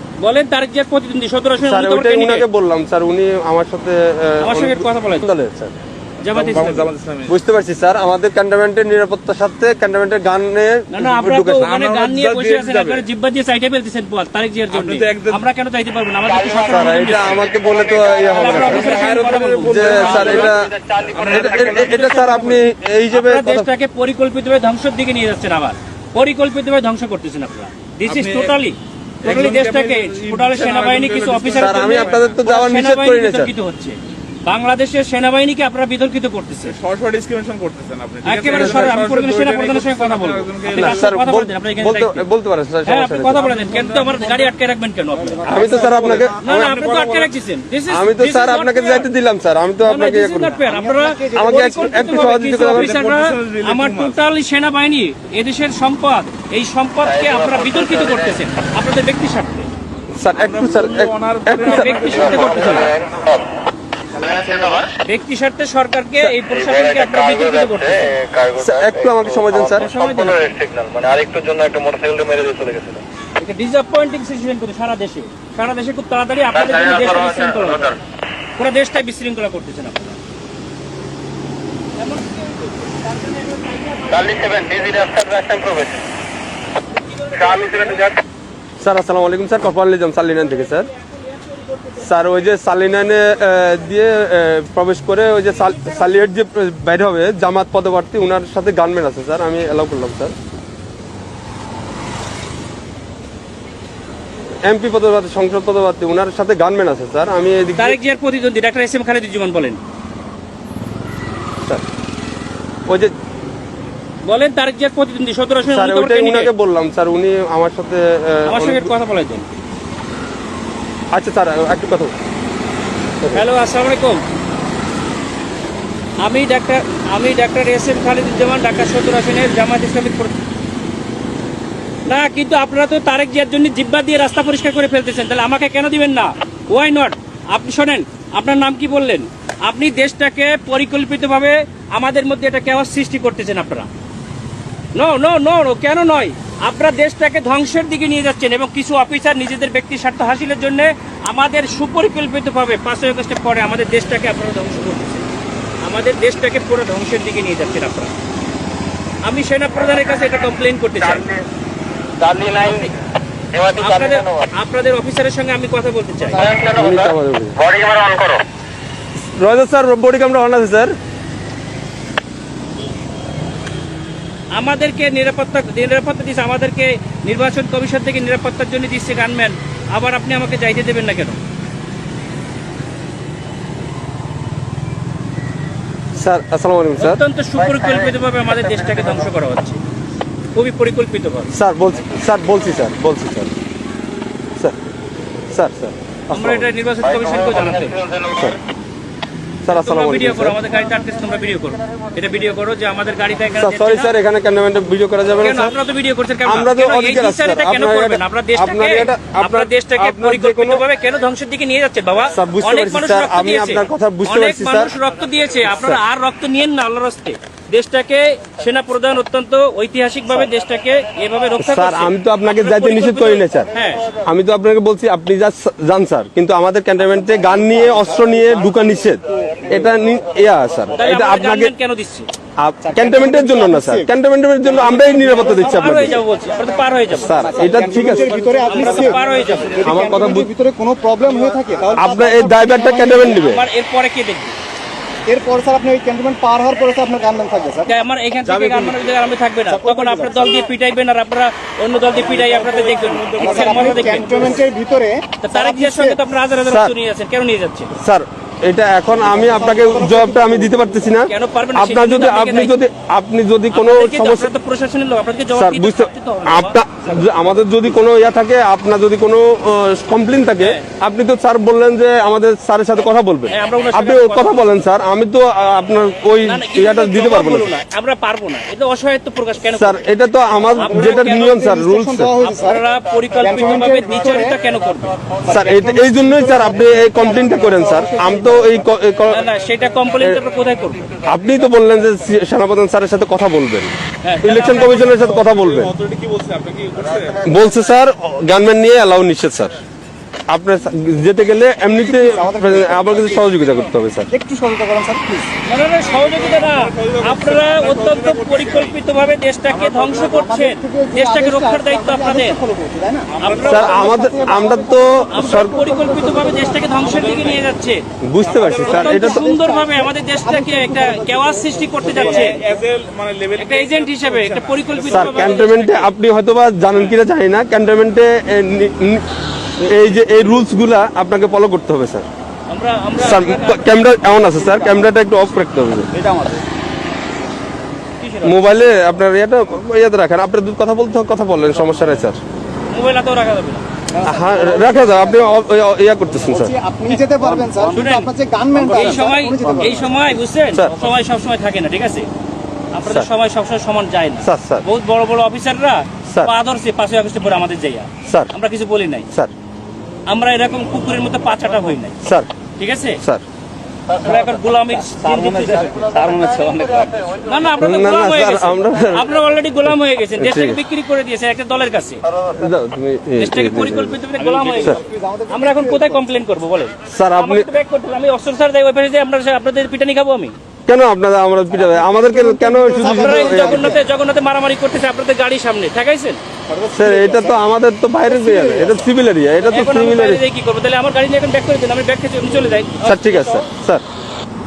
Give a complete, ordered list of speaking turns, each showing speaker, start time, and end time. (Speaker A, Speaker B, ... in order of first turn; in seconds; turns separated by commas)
Speaker A: 0.2-2.5, Speaker B: 1.6-5.8, Speaker A: 4.4-5.2, Speaker A: 6.2-6.9, Speaker C: 6.2-7.3, Speaker B: 7.3-11.7, Speaker A: 10.9-17.4, Speaker C: 11.5-13.0, Speaker C: 14.7-15.4, Speaker D: 16.4-16.9, Speaker B: 16.6-19.1, Speaker D: 17.4-19.3, Speaker A: 18.3-20.4, Speaker C: 18.4-20.5, Speaker B: 19.6-20.7, Speaker D: 20.2-21.8, Speaker C: 21.1-21.9, Speaker A: 21.2-36.7, Speaker B: 21.2-23.7, Speaker C: 28.1-28.6, Speaker C: 29.2-32.4, Speaker B: 31.5-33.5, Speaker C: 36.6-41.0, Speaker A: 38.2-42.2, Speaker B: 40.7-43.4, Speaker A: 42.9-45.4, Speaker C: 43.3-44.5, Speaker E: 45.2-46.0, Speaker B: 45.4-46.8, Speaker C: 45.7-47.3, Speaker A: 46.4-49.1, Speaker B: 47.9-50.6, Speaker A: 49.8-59.7, Speaker E: 50.7-52.1, Speaker B: 51.3-52.9, Speaker C: 52.6-54.2, Speaker D: 57.0-58.4, Speaker B: 60.1-62.9, Speaker C: 60.4-62.9, Speaker A: 61.6-62.9, Speaker D: 62.0-63.4, Speaker D: 64.2-64.9, Speaker A: 65.0-68.1, Speaker D: 66.5-73.0, Speaker B: 68.6-69.9, Speaker A: 69.6-70.4, Speaker A: 73.4-78.0, Speaker D: 76.5-77.9, Speaker A: 78.6-80.2, Speaker A: 82.0-85.0, Speaker D: 84.1-86.0, Speaker A: 87.1-88.0, Speaker D: 87.3-88.2, Speaker B: 88.8-90.9, Speaker A: 90.9-92.2, Speaker B: 92.0-100.3, Speaker A: 95.5-96.0, Speaker B: 104.6-108.0, Speaker A: 107.8-109.8, Speaker B: 112.9-113.1, Speaker A: 114.2-116.5, Speaker B: 115.6-118.9, Speaker A: 118.5-119.5, Speaker B: 121.1-122.1, Speaker A: 123.3-124.2, Speaker A: 126.2-130.3, Speaker A: 132.1-143.9, Speaker A: 144.9-155.3, Speaker A: 155.8-158.1, Speaker A: 159.2-161.2, Speaker D: 161.0-161.4, Speaker D: 162.2-162.9, Speaker D: 163.5-164.5, Speaker A: 163.7-166.5, Speaker D: 166.3-168.4, Speaker B: 166.7-167.6, Speaker B: 169.3-170.9, Speaker A: 174.5-181.4, Speaker B: 186.2-187.2, Speaker A: 187.0-189.8, Speaker D: 187.6-188.1, Speaker D: 188.6-189.2, Speaker A: 190.5-191.5, Speaker B: 191.5-193.5, Speaker B: 195.5-196.7, Speaker A: 196.3-198.0, Speaker D: 197.1-198.5, Speaker B: 198.3-198.6, Speaker B: 199.6-200.6, Speaker A: 199.7-204.1, Speaker B: 203.6-205.7, Speaker A: 205.4-224.0, Speaker B: 206.4-210.8, Speaker B: 212.3-214.9, Speaker B: 215.7-216.0, Speaker B: 221.6-223.7, Speaker B: 224.2-231.7, Speaker E: 227.2-228.6, Speaker E: 229.2-229.9, Speaker A: 230.9-232.3, Speaker B: 232.6-236.2, Speaker E: 232.8-234.1, Speaker E: 234.8-236.2, Speaker A: 235.3-240.1, Speaker B: 237.1-238.4, Speaker E: 237.3-243.4, Speaker C: 237.8-239.8, Speaker B: 239.8-240.5, Speaker B: 241.9-243.6, Speaker A: 243.1-244.5, Speaker E: 245.3-247.9, Speaker A: 247.8-254.6, Speaker C: 248.4-249.2, Speaker E: 249.7-250.6, Speaker C: 252.1-254.7, Speaker E: 253.4-256.2, Speaker A: 255.4-257.9, Speaker B: 256.6-256.9, Speaker B: 258.0-264.5, Speaker E: 259.2-261.1, Speaker A: 261.3-262.8, Speaker A: 263.7-266.8, Speaker B: 265.5-277.7, Speaker A: 273.5-274.7, Speaker A: 276.4-280.0, Speaker B: 279.7-282.3, Speaker A: 280.7-281.6, Speaker E: 280.9-282.8, Speaker A: 282.4-285.2, Speaker E: 283.4-284.5, Speaker B: 285.4-289.4, Speaker E: 285.4-288.8, Speaker A: 289.3-291.1, Speaker B: 291.2-295.9, Speaker A: 294.2-294.9, Speaker C: 294.6-297.5, Speaker B: 297.4-299.8, Speaker B: 300.5-304.3, Speaker E: 301.9-303.6, Speaker E: 304.3-305.5, Speaker A: 305.6-312.6, Speaker C: 306.0-309.0, Speaker C: 309.7-310.5, Speaker E: 310.2-317.3, Speaker C: 313.3-314.1, Speaker A: 313.4-314.0, Speaker B: 313.6-315.8, Speaker A: 315.3-318.0, Speaker C: 317.0-317.7, Speaker B: 318.2-319.5, Speaker C: 318.4-319.1, Speaker E: 318.4-322.8, Speaker A: 318.8-322.6, Speaker C: 322.0-325.7, Speaker A: 323.6-326.1, Speaker B: 325.1-329.2, Speaker B: 329.8-332.2, Speaker A: 332.7-334.4, Speaker B: 333.2-336.1, Speaker E: 336.1-336.6, Speaker A: 338.2-338.7, Speaker B: 338.4-342.4, Speaker A: 342.9-343.8, Speaker E: 344.1-345.6, Speaker B: 344.2-346.7, Speaker E: 346.3-350.4, Speaker A: 347.9-352.3, Speaker B: 350.7-351.1, Speaker A: 352.9-359.3, Speaker B: 354.4-354.8, Speaker B: 358.2-358.5, Speaker A: 360.3-362.2, Speaker B: 362.2-362.5, Speaker A: 362.8-363.2, Speaker A: 364.2-366.1, Speaker C: 365.2-367.4, Speaker D: 365.8-367.6, Speaker A: 367.4-372.2, Speaker B: 367.8-369.3, Speaker B: 369.8-370.8, Speaker B: 372.5-374.2, Speaker A: 373.4-380.5, Speaker C: 374.4-375.0, Speaker E: 374.9-376.3, Speaker B: 377.1-377.7, Speaker B: 380.9-383.9, Speaker E: 381.7-384.0, Speaker A: 382.9-386.4, Speaker E: 386.7-387.6, Speaker B: 386.9-390.4, Speaker E: 388.2-389.1, Speaker A: 389.6-393.7, Speaker B: 393.0-394.0